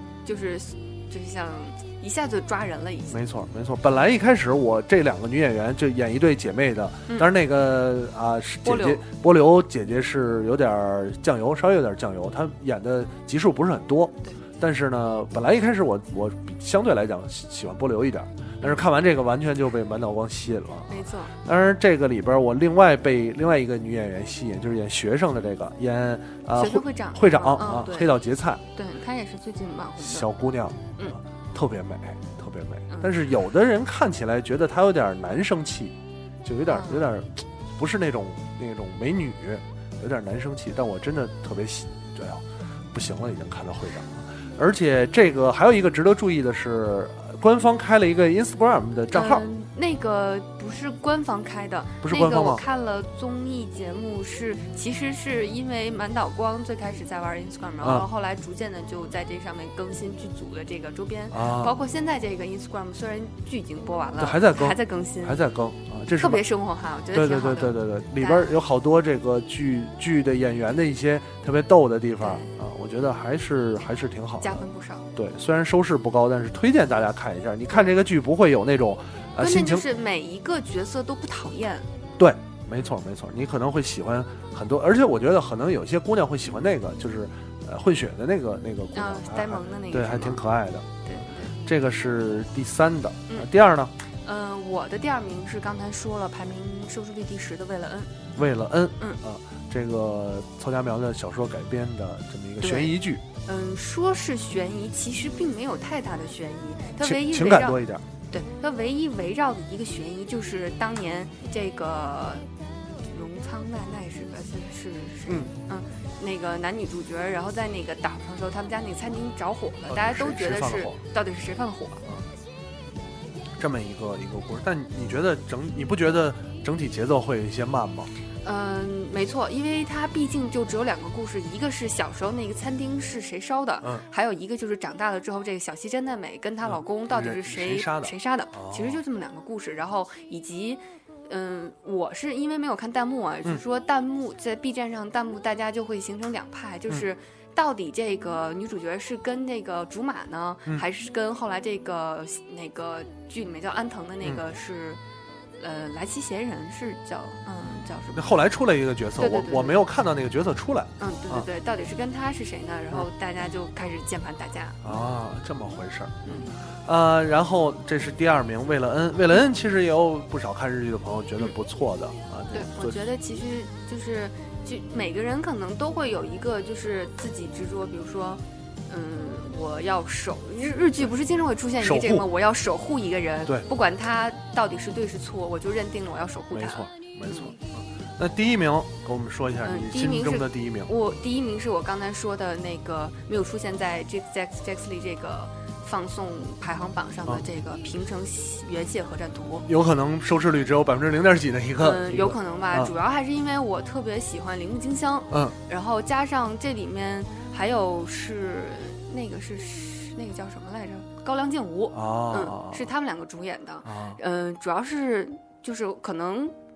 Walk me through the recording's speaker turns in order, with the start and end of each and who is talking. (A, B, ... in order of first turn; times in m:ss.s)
0:00.2-0:03.2 A
0:03.1-0:28.6 B
0:08.6-0:09.0 A
0:20.9-0:21.3 A
0:26.6-0:28.1 A
0:28.7-0:30.3 A
0:30.0-0:49.4 B
0:36.6-0:37.1 A
0:49.1-1:05.4 A
0:52.0-0:52.6 B
0:57.8-0:58.0 B
1:01.3-1:01.7 B
1:04.2-1:06.4 B
1:06.2-1:08.6 A
1:07.1-1:19.9 B
1:12.2-1:12.5 A
1:14.4-1:15.1 A
1:19.4-1:21.8 A
1:22.2-1:33.9 B
1:28.9-1:30.4 A
1:31.0-1:31.5 A
1:34.2-1:38.1 A
1:38.4-1:43.2 B
1:42.6-1:52.4 A
1:47.0-1:48.0 B
1:53.0-2:02.0 A
1:59.9-2:01.0 B
2:03.6-2:08.1 B
2:08.4-2:35.0 A
2:16.6-2:19.0 B
2:35.6-2:38.4 A
2:38.1-2:41.5 B
2:39.2-2:39.8 A
2:41.0-2:44.8 A
2:44.8-2:53.1 B
2:46.2-2:46.6 A
2:52.5-3:07.5 A
3:01.8-3:02.3 B
3:06.5-3:10.9 B
3:09.6-3:19.7 A
3:19.6-3:22.9 B
3:21.8-3:36.5 A
3:25.3-3:25.6 B
3:31.9-3:32.9 B
3:33.8-3:34.2 B